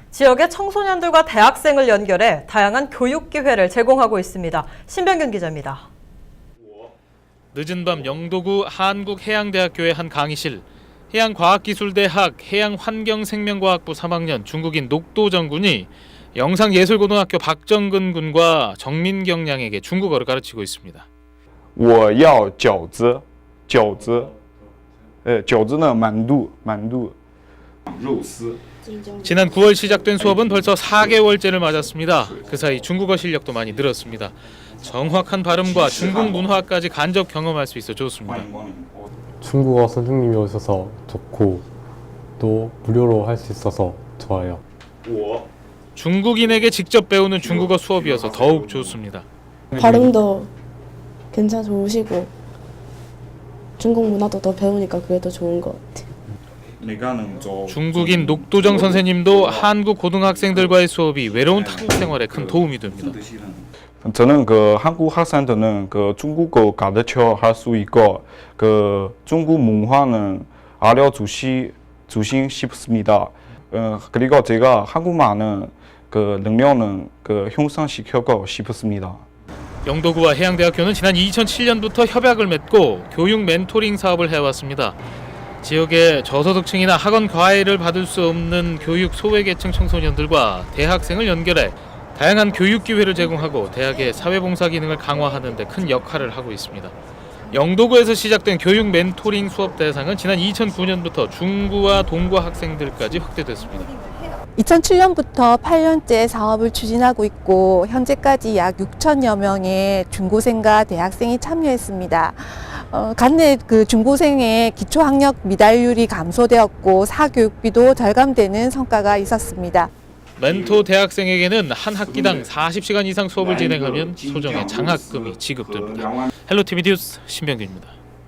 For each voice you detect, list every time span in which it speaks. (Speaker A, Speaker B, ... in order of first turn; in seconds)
Speaker A: 0.1-5.9
Speaker B: 7.5-21.1, 29.2-38.5, 46.0-49.2, 57.7-63.2, 79.8-85.0, 85.6-96.9, 97.5-104.0, 120.4-127.9
Speaker C: 21.8-24.3, 25.2-27.1, 27.9-28.6, 30.2-31.1, 32.1-32.8, 35.6-36.5, 38.2-39.1, 47.4-49.0, 56.8-59.7, 60.2-60.8, 61.3-79.2, 120.4-120.8, 122.0-122.5, 123.4-126.3
Speaker D: 24.0-24.6, 39.4-41.6, 42.4-44.6, 49.7-50.1
Speaker E: 28.8-30.1, 49.7-50.5, 51.3-52.3, 53.8-56.1
Speaker F: 104.5-119.9